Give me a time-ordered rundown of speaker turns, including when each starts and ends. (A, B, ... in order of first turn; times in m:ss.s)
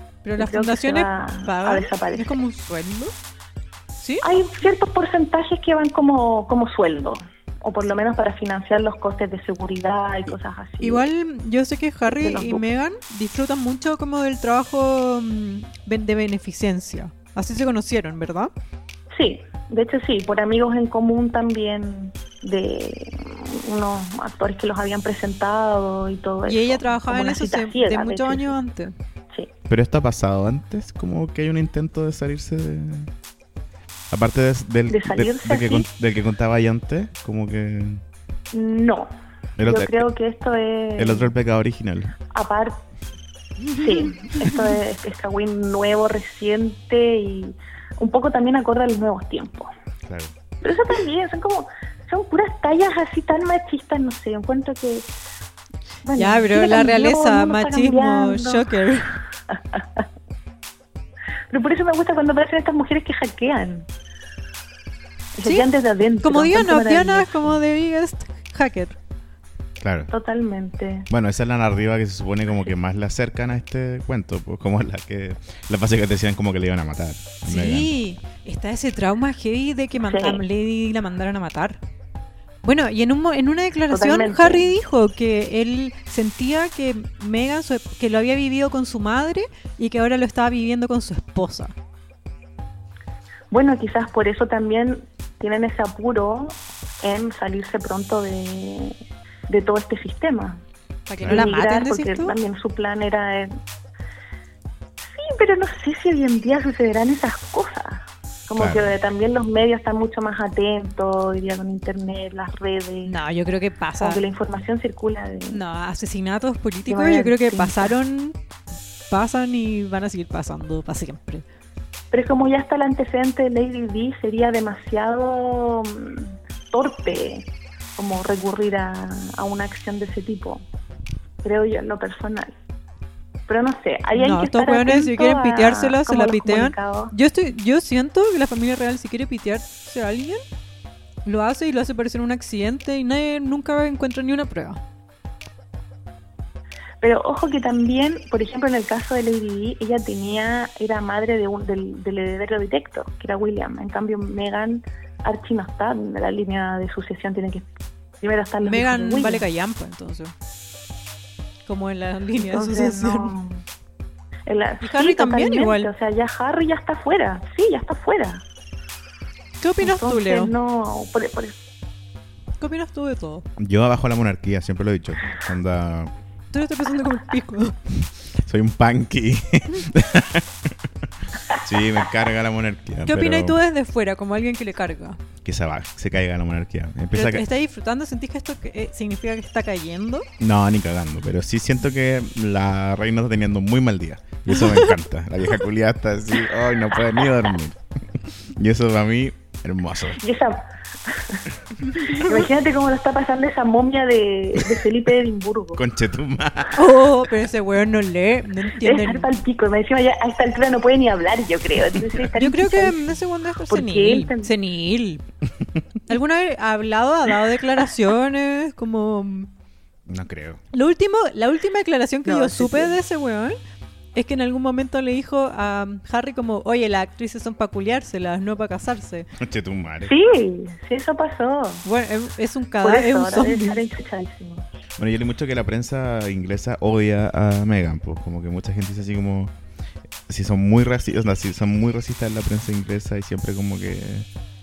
0:00.2-0:03.1 A
0:00.4-0:02.4 B
0:04.0-0:04.2 A
0:04.2-0:11.1 B
0:10.8-0:18.5 A
0:12.1-0:12.6 B
0:19.2-0:28.5 B
0:26.5-0:28.9 A
0:29.7-0:33.1 C
0:34.1-0:38.0 C
0:34.9-0:35.9 B
0:38.5-0:39.1 B
0:39.6-0:40.1 C
0:39.6-0:41.3 B
0:41.0-0:42.2 C
0:42.3-0:42.8 B
0:43.6-0:44.6 A
0:43.7-0:49.7 B
0:50.1-0:50.3 C
0:50.6-0:55.1 B
0:56.0-0:58.7 B
0:56.2-0:59.2 A
0:59.5-1:00.0 B
1:01.5-1:03.9 B
1:05.4-1:07.6 B
1:06.2-1:09.0 A
1:09.8-1:10.1 C
1:10.1-1:11.1 B
1:11.1-1:17.9 C
1:17.5-1:21.8 A
1:20.0-1:20.4 B
1:22.6-1:31.7 A
1:23.9-1:24.7 B
1:33.5-1:39.0 B
1:39.5-1:40.6 B
1:41.1-1:42.4 A
1:41.2-1:41.5 C
1:41.2-1:43.5 B
1:45.0-1:53.2 B
1:48.6-1:48.9 C
1:53.0-1:54.2 A
1:54.0-1:55.6 B
1:55.5-1:58.4 A
1:56.9-1:57.9 B
1:59.1-2:01.4 A
2:02.1-2:10.6 B
2:11.4-2:12.5 B
2:13.5-2:17.1 B
2:14.2-2:20.4 A
2:21.2-2:24.8 A
2:27.0-2:37.7 B
2:38.2-2:39.4 B
2:38.6-2:40.3 A
2:41.7-2:43.4 A
2:42.4-2:43.6 B
2:44.5-2:48.4 B
2:44.8-2:45.9 A
2:49.6-2:50.5 A
2:49.8-2:51.6 B
2:52.6-2:53.5 A
2:53.6-2:56.1 C
2:56.5-2:57.8 A
2:58.4-3:00.9 C
3:01.6-3:03.6 C
3:03.1-3:05.2 A
3:05.4-3:07.4 C
3:07.1-3:10.3 A
3:10.4-3:17.8 C
3:14.5-3:14.9 A
3:18.5-3:20.2 C
3:20.2-3:21.5 B
3:21.9-3:22.5 A
3:22.0-3:25.8 B
3:25.8-3:26.8 C
3:26.8-3:29.3 A
3:28.8-3:33.2 B
3:31.9-3:32.2 C
3:32.4-3:35.2 A
3:33.7-3:34.5 B
3:36.1-3:39.5 A
3:40.1-3:40.6 C
3:40.7-3:43.6 A
3:42.2-3:43.0 B
3:44.2-3:49.3 A
3:49.4-3:50.1 C
3:50.0-3:51.8 B
3:51.8-3:53.8 A
3:52.8-3:54.7 B
3:55.0-3:59.5 C
4:00.3-4:04.3 C